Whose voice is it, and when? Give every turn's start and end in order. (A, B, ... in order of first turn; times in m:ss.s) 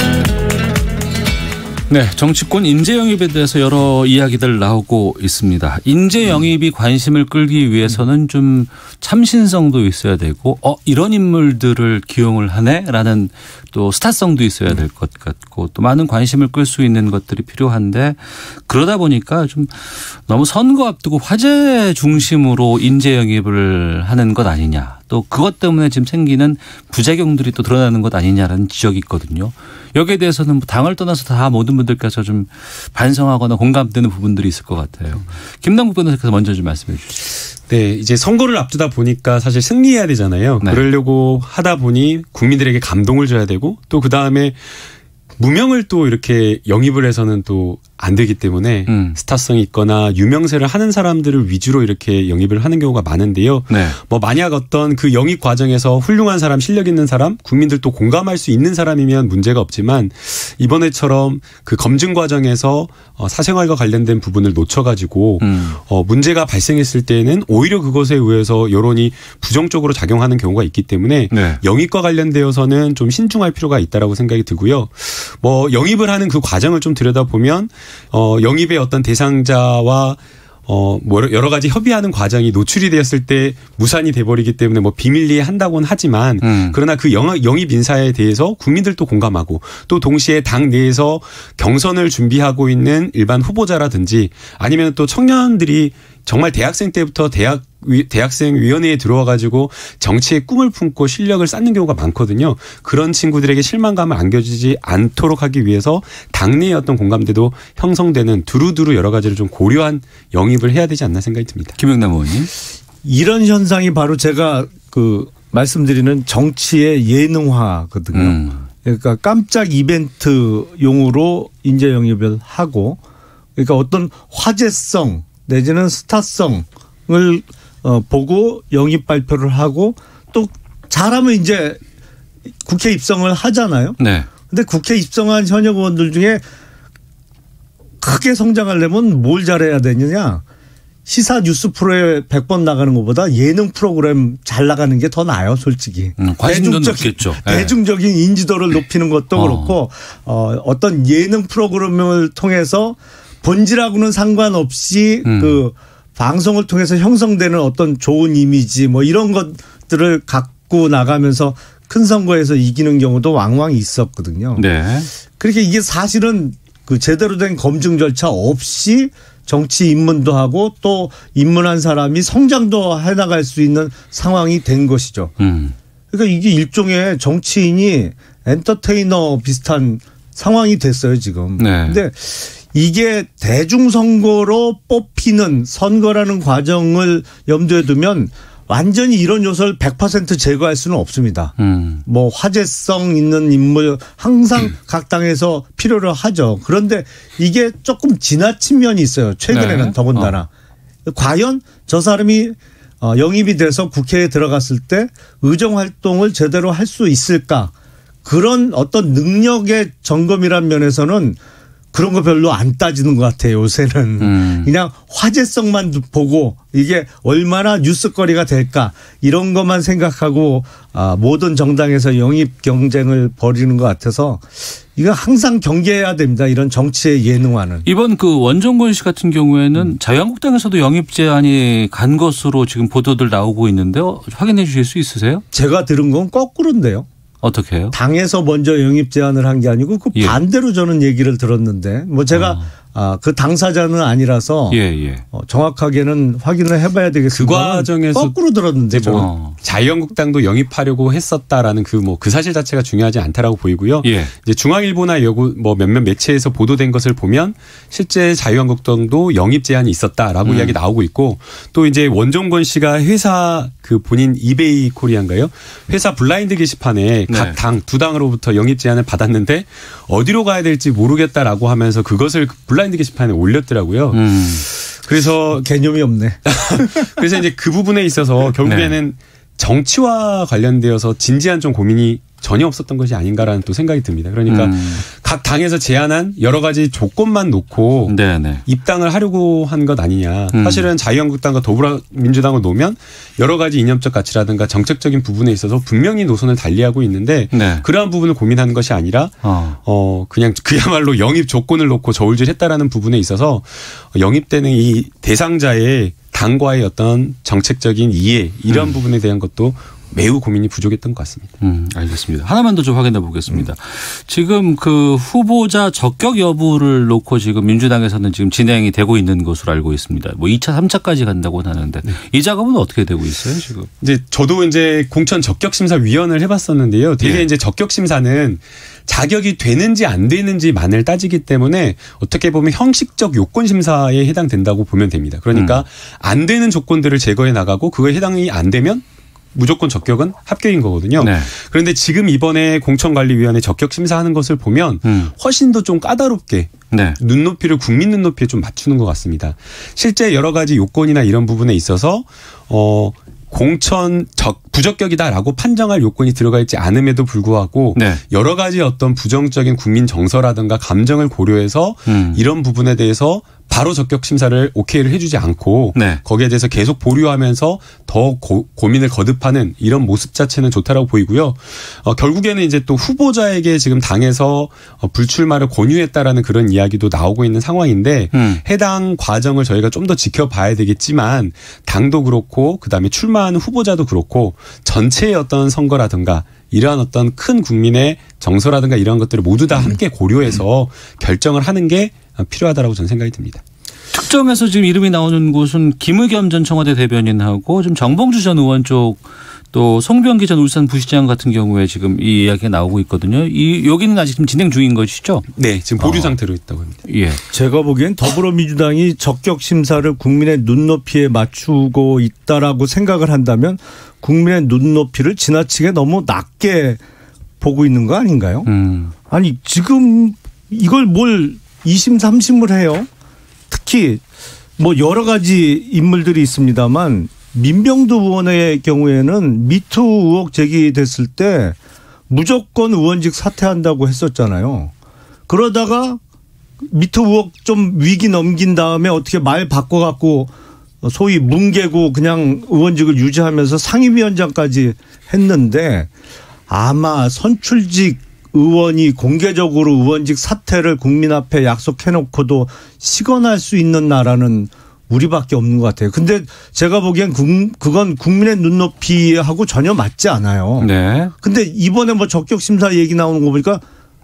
0:01.9-0:37.2 A
0:37.7-0:44.6 B
0:45.4-1:51.8 B
0:48.9-0:49.2 A
0:53.7-0:54.0 A
1:05.4-1:05.8 A
1:11.3-1:11.6 A
1:26.4-1:26.8 A
1:51.8-1:52.5 A
1:53.0-2:03.0 C
1:58.1-1:58.7 A
2:03.6-2:11.8 C
2:12.6-2:16.4 C
2:14.0-2:14.3 A
2:18.0-2:20.4 C
2:21.1-2:44.7 C
2:26.2-2:27.8 A
2:29.4-2:29.8 A
2:35.2-2:35.6 A
2:44.6-2:45.1 A
2:45.3-2:55.3 C
2:55.4-2:55.8 A
2:56.1-3:11.5 C
3:01.6-3:02.0 A
3:11.6-3:12.0 A
3:12.0-3:20.5 C
3:19.5-3:20.4 A
3:21.1-3:27.7 C
3:28.2-3:31.4 C
3:31.9-3:47.9 C
3:34.2-3:34.7 A
3:47.9-3:55.4 A
3:55.5-3:57.1 C
3:57.4-3:58.0 A
3:57.9-4:04.8 C
4:02.3-4:02.7 A
4:04.7-4:05.2 A
4:05.3-4:09.3 C
4:07.3-4:08.4 B
4:08.9-4:35.6 B
4:09.1-4:09.6 A
4:14.0-4:14.3 A
4:20.4-4:20.8 A
4:27.3-4:27.6 A
4:34.1-4:34.6 A
4:35.5-4:37.1 C
4:36.5-5:11.5 B
4:38.7-4:39.0 A
4:44.5-4:45.0 A
4:48.1-4:48.6 A
4:50.5-4:50.9 A
4:57.5-4:57.9 A
4:59.4-4:59.8 A
5:08.7-5:09.0 A
5:11.6-5:23.9 A
5:24.0-5:39.0 B
5:27.2-5:27.5 A
5:35.5-5:35.8 A
5:39.6-6:33.6 B
5:41.2-5:41.5 A
5:45.0-5:45.3 A
5:46.9-5:47.2 A
5:58.0-5:58.2 A
6:02.1-6:02.4 A
6:06.0-6:06.2 A
6:18.3-6:18.6 A
6:34.1-6:45.5 A
6:45.6-6:47.0 B
6:46.0-6:46.4 A
6:47.0-6:47.4 A
6:47.5-6:57.0 C
6:57.6-6:58.7 C
6:58.7-6:59.1 A
6:59.3-7:03.1 C
7:03.7-7:04.2 C
7:04.8-7:11.8 C
7:12.3-7:14.9 C
7:15.5-7:16.2 C
7:16.8-7:26.1 C
7:26.7-7:40.9 C
7:40.8-7:41.3 A
7:41.4-7:43.8 C